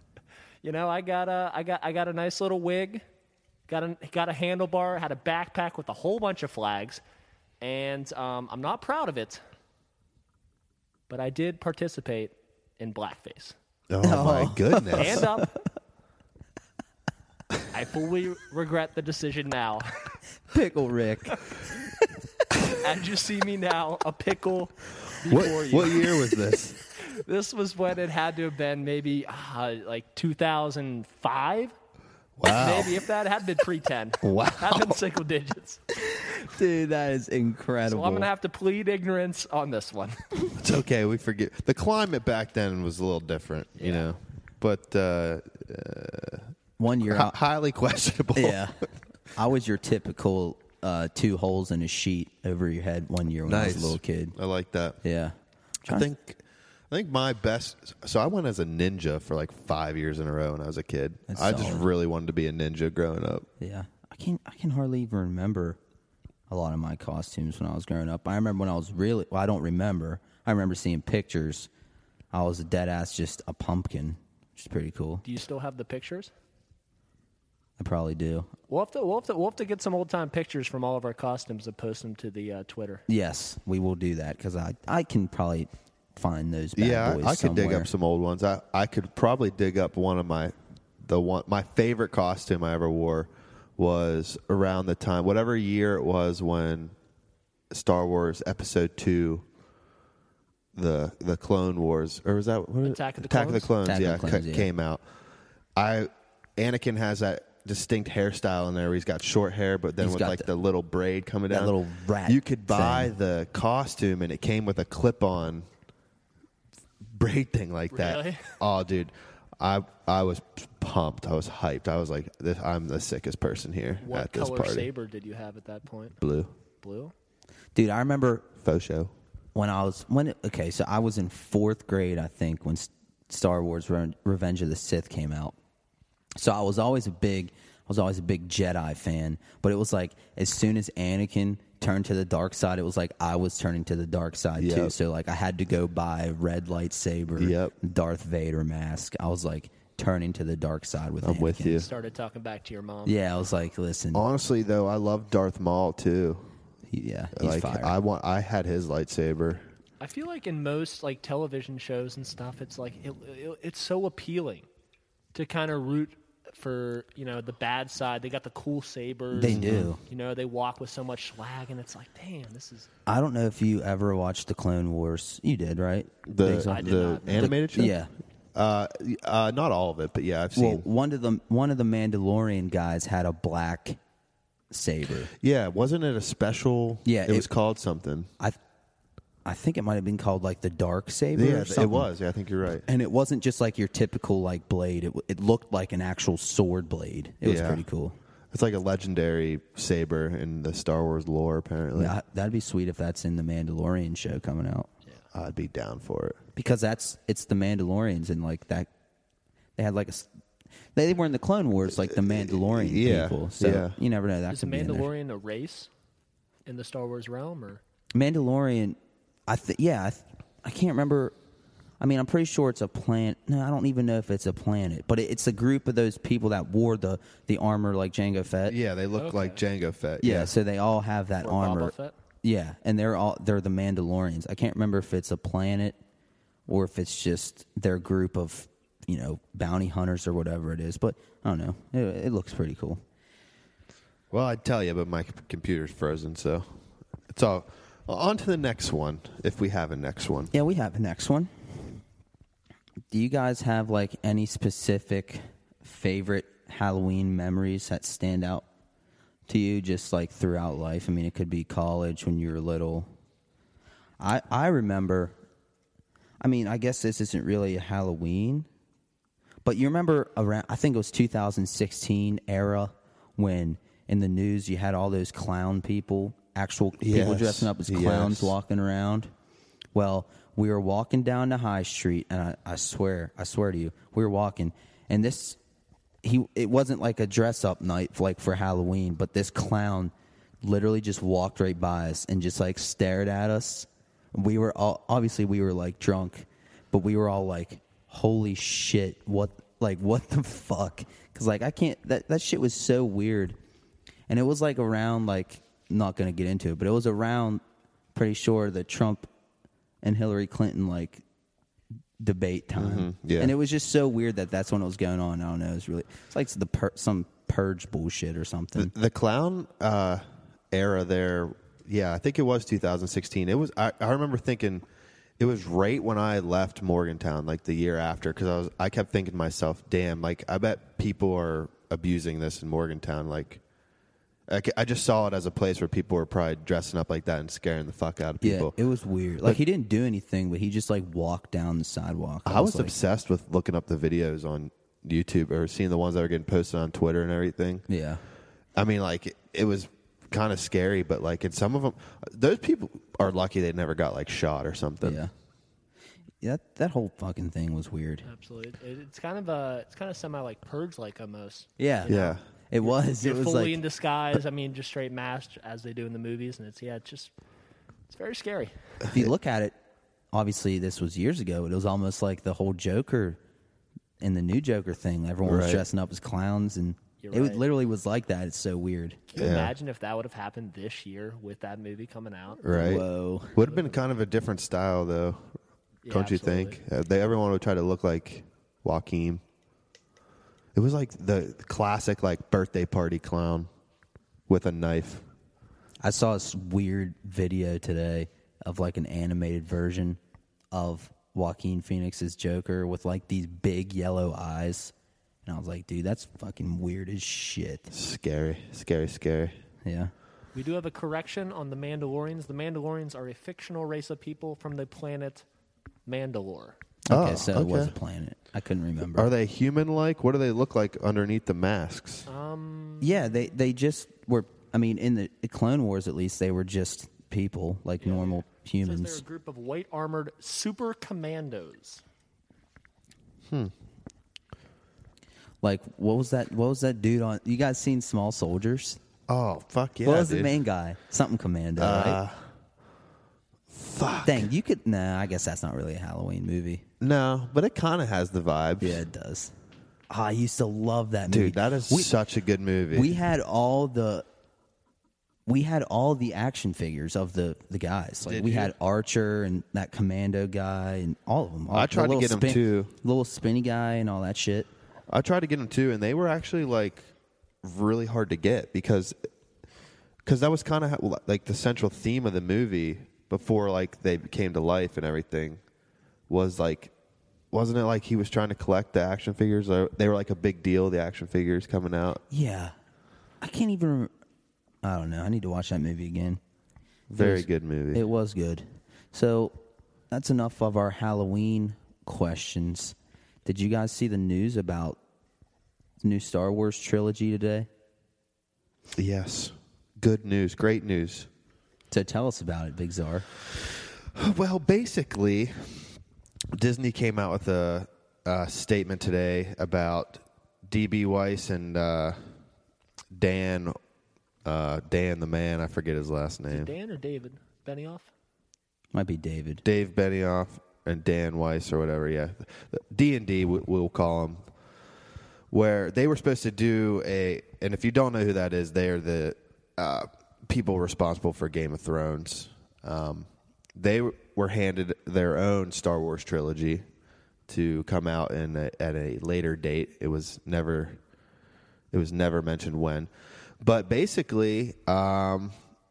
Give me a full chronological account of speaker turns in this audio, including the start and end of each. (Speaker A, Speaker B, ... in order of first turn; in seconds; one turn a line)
Speaker A: 0.6-3.0
Speaker A: 3.7-7.0
Speaker A: 7.6-9.4
Speaker A: 11.1-13.6
Speaker B: 13.9-15.3
Speaker C: 14.0-15.4
Speaker A: 14.9-15.5
Speaker A: 17.7-20.1
Speaker C: 20.5-21.4
Speaker A: 22.8-26.1
Speaker B: 25.2-26.8
Speaker A: 27.0-31.7
Speaker B: 32.4-33.0
Speaker A: 32.5-35.8
Speaker B: 34.2-35.0
Speaker C: 36.4-38.3
Speaker A: 37.9-40.2
Speaker B: 40.6-46.5
Speaker A: 43.8-44.1
Speaker C: 46.8-47.4
Speaker B: 47.1-48.8
Speaker C: 48.3-48.8
Speaker C: 49.3-54.4
Speaker B: 53.5-55.0
Speaker C: 55.0-56.0
Speaker B: 55.9-63.5
Speaker C: 61.3-61.9
Speaker C: 63.6-65.8
Speaker C: 66.5-71.7
Speaker C: 72.3-75.2
Speaker A: 75.2-76.3
Speaker C: 77.8-78.5
Speaker A: 78.7-83.0
Speaker C: 83.1-87.9
Speaker B: 86.8-96.9
Speaker B: 97.7-99.4
Speaker B: 100.7-105.0
Speaker A: 102.8-103.7
Speaker C: 103.8-104.7
Speaker B: 105.8-115.7
Speaker C: 110.0-110.5
Speaker C: 111.5-113.1
Speaker B: 117.0-124.9
Speaker A: 117.9-118.6
Speaker A: 124.0-126.2
Speaker B: 126.2-126.5
Speaker A: 126.8-127.1
Speaker C: 127.7-128.5
Speaker B: 128.6-129.1
Speaker C: 129.5-135.5
Speaker C: 136.3-151.8
Speaker B: 144.6-144.9
Speaker B: 147.4-147.7
Speaker B: 151.2-151.9
Speaker A: 151.7-153.2
Speaker C: 153.0-154.2
Speaker B: 154.1-156.5
Speaker C: 156.9-157.9
Speaker B: 157.3-159.7
Speaker A: 160.0-164.6
Speaker A: 165.3-172.9
Speaker C: 169.3-170.0
Speaker B: 169.5-169.9
Speaker C: 173.1-178.1
Speaker B: 176.3-177.9
Speaker A: 176.6-177.5
Speaker B: 178.5-180.8
Speaker C: 180.6-184.0
Speaker C: 184.7-185.3
Speaker B: 185.3-188.3
Speaker C: 187.0-187.5
Speaker C: 189.4-192.1
Speaker B: 191.3-192.8
Speaker C: 192.8-198.2
Speaker B: 197.4-197.8
Speaker B: 198.5-202.2
Speaker C: 201.9-204.9
Speaker B: 205.3-206.4
Speaker C: 206.6-208.9
Speaker C: 209.8-210.3
Speaker C: 210.9-215.1
Speaker B: 212.2-214.0
Speaker A: 214.5-215.9
Speaker A: 216.7-217.8
Speaker C: 218.1-221.3
Speaker C: 222.0-228.8
Speaker B: 228.7-230.6
Speaker A: 229.2-229.6
Speaker C: 230.2-236.0
Speaker A: 231.4-232.2
Speaker C: 236.7-243.0
Speaker B: 244.3-246.7
Speaker B: 247.3-250.5
Speaker C: 250.5-251.9
Speaker C: 253.1-258.6
Speaker C: 259.5-263.1
Speaker C: 264.2-265.3
Speaker C: 266.4-268.7
Speaker C: 269.6-279.3
Speaker B: 277.0-278.5
Speaker C: 279.9-285.6
Speaker C: 286.2-290.1
Speaker C: 290.6-303.6
Speaker C: 304.3-307.6
Speaker C: 308.1-309.3
Speaker C: 310.0-311.2
Speaker C: 312.2-318.9
Speaker B: 312.8-313.5
Speaker B: 318.8-324.9
Speaker B: 325.4-333.6
Speaker B: 334.5-338.7
Speaker C: 338.4-342.9
Speaker B: 342.4-347.9
Speaker C: 347.9-348.2
Speaker B: 348.7-355.2
Speaker C: 355.0-355.3
Speaker C: 356.4-358.2
Speaker A: 358.2-367.3
Speaker C: 361.8-362.1
Speaker B: 362.1-362.4
Speaker C: 362.7-363.8
Speaker A: 368.1-368.7
Speaker C: 369.1-369.8
Speaker C: 370.3-373.4
Speaker C: 374.2-379.3
Speaker B: 375.4-375.8
Speaker A: 377.2-377.6
Speaker A: 379.3-382.7
Speaker B: 379.4-379.7
Speaker B: 382.6-383.0
Speaker C: 382.7-383.6
Speaker B: 383.5-385.4
Speaker A: 386.0-386.8
Speaker B: 386.1-389.4
Speaker B: 390.7-393.7
Speaker B: 394.5-395.2
Speaker C: 396.0-400.2
Speaker C: 400.7-404.9
Speaker C: 405.4-407.9
Speaker B: 407.9-409.6
Speaker C: 409.8-410.1
Speaker A: 410.5-415.4
Speaker A: 416.1-416.8
Speaker C: 417.1-419.3
Speaker B: 417.1-417.9
Speaker B: 419.1-422.3
Speaker A: 422.3-423.4
Speaker C: 423.0-429.2
Speaker A: 428.0-432.0
Speaker C: 435.6-439.0
Speaker B: 439.3-440.6
Speaker C: 440.0-442.2
Speaker B: 441.8-442.4
Speaker B: 443.7-444.5
Speaker C: 444.2-446.8
Speaker B: 447.0-449.0
Speaker C: 448.8-449.5
Speaker C: 450.1-452.1
Speaker B: 451.3-453.1
Speaker C: 452.9-454.2
Speaker C: 455.4-464.7
Speaker B: 458.2-458.7
Speaker B: 461.7-462.9
Speaker B: 465.1-467.1
Speaker B: 467.6-469.1
Speaker B: 470.2-475.6
Speaker B: 476.3-476.9
Speaker B: 477.5-482.2
Speaker C: 482.3-482.7
Speaker C: 483.4-484.1
Speaker C: 484.8-486.4
Speaker B: 487.1-488.0
Speaker C: 487.2-489.6
Speaker C: 490.1-495.0
Speaker C: 496.0-497.7
Speaker B: 498.9-501.3
Speaker C: 501.9-503.2
Speaker B: 504.1-505.9
Speaker B: 506.5-512.2
Speaker B: 513.1-513.8
Speaker B: 514.4-516.7
Speaker A: 516.5-518.1
Speaker C: 518.9-519.6
Speaker B: 519.6-524.4
Speaker B: 525.5-536.8
Speaker B: 537.5-541.0
Speaker B: 541.9-543.1
Speaker B: 543.6-545.5